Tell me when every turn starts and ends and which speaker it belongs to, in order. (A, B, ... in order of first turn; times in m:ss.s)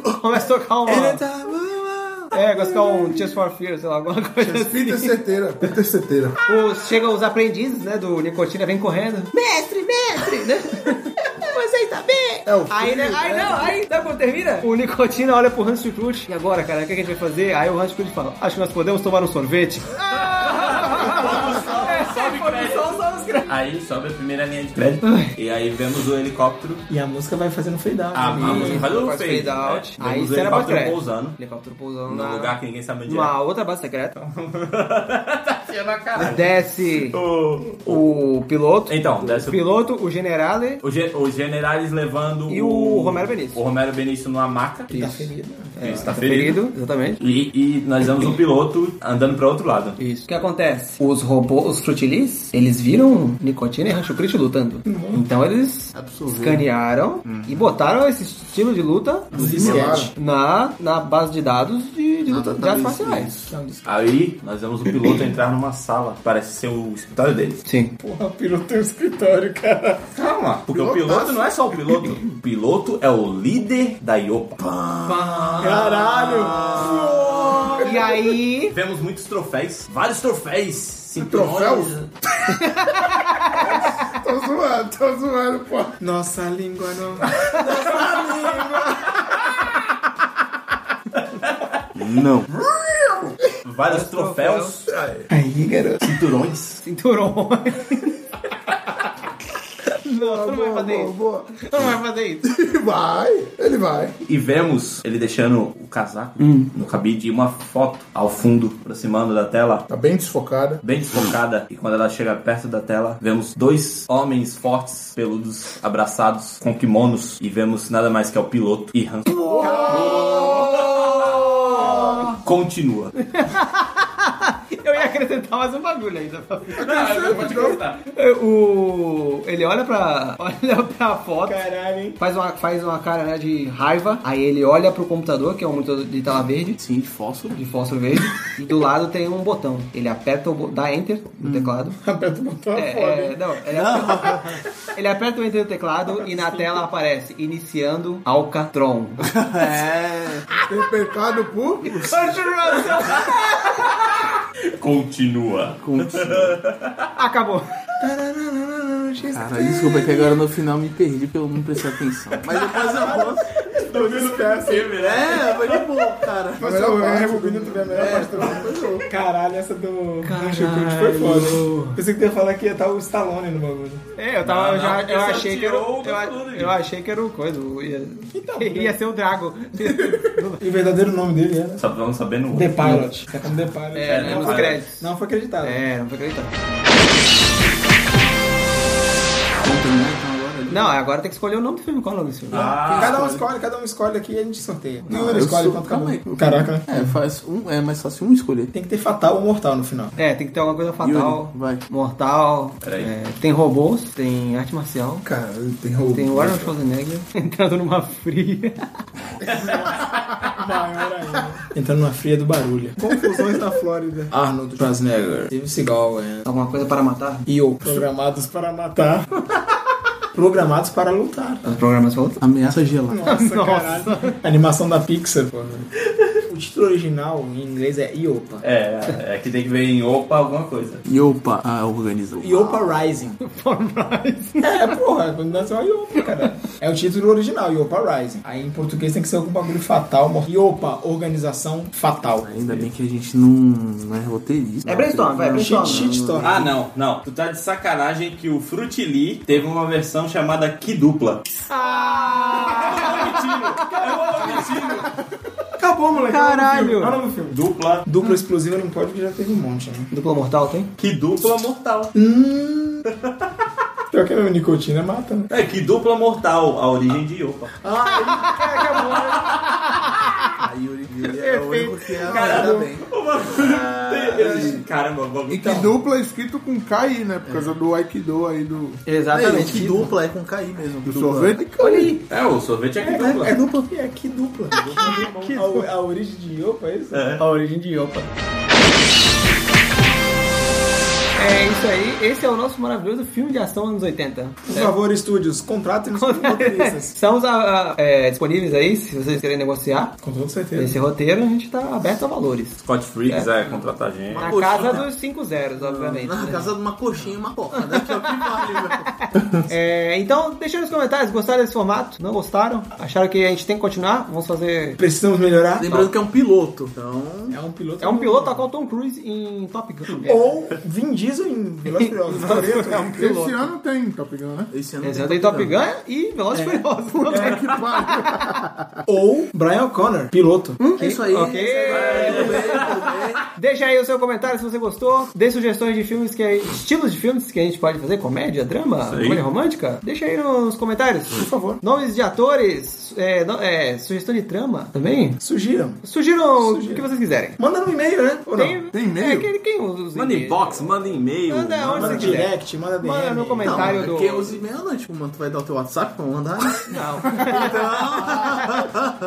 0:00.2-0:01.2 A
0:00.9-0:02.3 B
0:02.3-0:05.2 A
0:04.4-0:06.4 C
0:06.5-0:23.5 A
0:12.4-0:13.7 C
0:20.4-0:26.8 D
0:25.0-0:25.3 A
0:26.9-0:28.8 E
0:28.1-0:31.4 D
0:28.3-0:32.5 A
0:32.1-0:33.3 D
0:33.0-0:34.1 A
0:34.2-0:38.0 D
0:36.2-0:37.2 A
0:37.8-0:40.8 A
0:38.9-0:39.8 D
0:40.8-0:44.9 D
0:42.5-0:43.6 A
0:44.9-0:46.1 E
0:44.9-0:47.2 A
0:45.8-0:46.6 D
0:47.2-0:50.0 D
0:50.1-1:03.3 A
0:54.8-0:55.2 E
0:55.9-0:56.6 B
0:57.2-0:57.7 B
0:59.3-1:00.0 B
0:59.3-1:00.1 E
0:59.4-1:00.1 C
1:02.3-1:03.5 B
1:03.5-1:03.8 E
1:03.8-1:07.6 D
1:07.6-1:07.9 A
1:08.0-1:10.0 E
1:10.1-1:14.6 D
1:10.7-1:11.6 C
1:14.6-1:17.8 B
1:15.0-1:17.2 A
1:15.6-1:18.0 E
1:17.4-1:17.9 D
1:17.8-1:18.8 A
1:18.7-1:22.1 D
1:21.2-1:22.0 C
1:22.5-1:23.6 A
1:23.5-1:26.0 C
1:26.0-1:27.6 E
1:27.4-1:28.1 A
1:27.8-1:28.5 C
1:27.9-1:28.4 D
1:31.2-1:31.8 D
1:32.0-1:32.5 B
1:33.6-1:35.3 D
1:33.9-1:34.8 A
1:35.3-1:36.0 E
1:36.0-1:36.8 D
1:36.8-1:38.2 A
1:40.0-1:42.5 A
1:40.0-1:41.6 C
1:42.4-1:44.2 C
1:44.2-1:49.9 D
1:46.4-1:46.7 A
1:49.9-1:50.8 C
1:50.8-2:03.1 D
1:59.3-2:01.2 C
1:59.6-2:02.3 A
2:01.7-2:02.2 C
2:03.2-2:07.5 A
2:06.7-2:08.0 D
2:06.8-2:07.8 C
2:08.0-2:11.6 A
2:11.4-2:12.2 E
2:12.2-2:16.8 A
2:16.8-2:17.6 B
2:17.5-2:22.0 A
2:21.4-2:21.7 B
2:22.0-2:23.4 E
2:22.7-2:29.3 A
2:23.7-2:24.6 B
2:26.1-2:26.8 E
2:29.2-2:30.5 B
2:30.6-2:31.9 C
2:31.8-2:32.7 B
2:31.8-2:34.1 A
2:33.1-2:33.4 D
2:34.7-2:37.1 D
2:35.8-2:36.6 B
2:37.2-2:37.7 A
2:38.0-2:40.2 E
2:39.3-2:43.5 B
2:42.9-2:45.0 E
2:43.8-2:45.9 D
2:44.9-2:46.7 B
2:46.6-2:54.0 E
2:46.6-2:48.5 C
2:47.9-2:49.1 B
2:50.2-2:52.0 A
2:54.2-3:00.6 A
2:54.4-2:56.8 D
2:58.3-2:59.0 E
2:59.8-3:01.8 E
3:01.8-3:03.0 D
3:02.5-3:05.8 E
3:03.9-3:05.1 A
3:04.0-3:04.9 D
3:05.6-3:06.5 A
3:09.5-3:11.0 B
3:10.7-3:12.8 A
3:12.5-3:13.3 D
3:12.5-3:13.4 B
3:13.0-3:17.1 E
3:15.1-3:18.7 B
3:18.7-3:20.1 E
3:20.2-3:25.2 A
3:21.0-3:21.8 B
3:22.8-3:23.1 D
3:25.2-3:26.6 E
3:26.1-3:28.9 A
3:29.5-3:36.5 E
3:36.4-3:37.4 A
3:37.5-3:39.3 E
3:40.3-3:41.8 E
3:41.6-3:42.4 A
3:42.4-3:43.2 B
3:43.1-3:45.9 E
3:43.2-3:44.4 A
3:46.5-3:48.6 E
3:48.6-3:51.0 D
3:51.0-3:53.0 B
3:52.4-3:53.4 E
3:53.4-3:54.8 A
3:54.6-4:02.5 E
4:02.4-4:06.7 B
4:02.5-4:02.9 D
4:04.8-4:06.2 A
4:05.5-4:06.6 E
4:06.4-4:11.4 D
4:11.7-4:13.4 A
4:12.3-4:15.1 D
4:12.6-4:13.2 E
4:13.9-4:14.9 E
4:14.0-4:14.7 A
4:15.8-4:20.1 E
4:16.1-4:17.2 A
4:17.5-4:18.1 D
4:20.1-4:20.9 A
4:21.0-4:22.1 D
4:22.1-4:23.0 E
4:24.1-4:25.5 E
4:25.5-4:27.7 D
4:27.8-4:28.7 E
4:28.1-4:30.5 A
4:29.0-4:29.6 D
4:30.5-4:33.1 B
4:31.2-4:32.8 A
4:32.2-4:35.8 D
4:32.3-4:32.9 E
4:33.8-4:34.8 A
4:35.5-4:39.0 C
4:37.4-4:37.7 B
4:39.0-4:40.1 A
4:39.3-4:41.6 B
4:41.0-4:42.1 C
4:41.8-4:42.2 A
4:42.3-4:43.6 D
4:43.0-4:47.2 E
4:43.2-4:43.9 B
4:44.8-4:45.9 A
4:47.1-4:47.4 D
4:47.4-4:48.3 A
4:51.4-4:54.9 A
4:54.6-4:57.1 E
4:56.2-5:00.1 A
5:00.2-5:01.0 E
5:00.8-5:03.5 A
5:02.8-5:05.0 D
5:04.3-5:05.1 B
5:04.4-5:06.8 A
5:05.8-5:09.4 B
5:07.7-5:08.8 A
5:09.7-5:15.0 A
5:15.0-5:15.9 E
5:15.8-5:17.6 B
5:15.8-5:16.1 D
5:17.5-5:18.6 E
5:18.0-5:20.4 A
5:20.2-5:23.2 E
5:21.9-5:23.7 A
5:23.1-5:24.7 C
5:24.7-5:25.8 B
5:25.0-5:28.4 A
5:26.5-5:26.8 B
5:27.3-5:27.6 E
5:27.3-5:29.0 C
5:29.0-5:30.8 E
5:30.8-5:32.9 A
5:31.0-5:33.4 B
5:31.7-5:32.7 E
5:31.9-5:32.9 D
5:33.5-5:45.4 A
5:39.0-5:39.4 D
5:41.3-5:41.8 E
5:45.4-5:46.0 E
5:46.0-5:47.6 A
5:46.6-5:47.1 E
5:47.6-5:48.8 E
5:48.5-5:50.9 A
5:48.9-5:49.5 C
5:50.1-5:52.5 D
5:51.5-5:54.6 A
5:51.9-5:54.0 E
5:53.6-5:58.9 B
5:56.9-5:57.8 A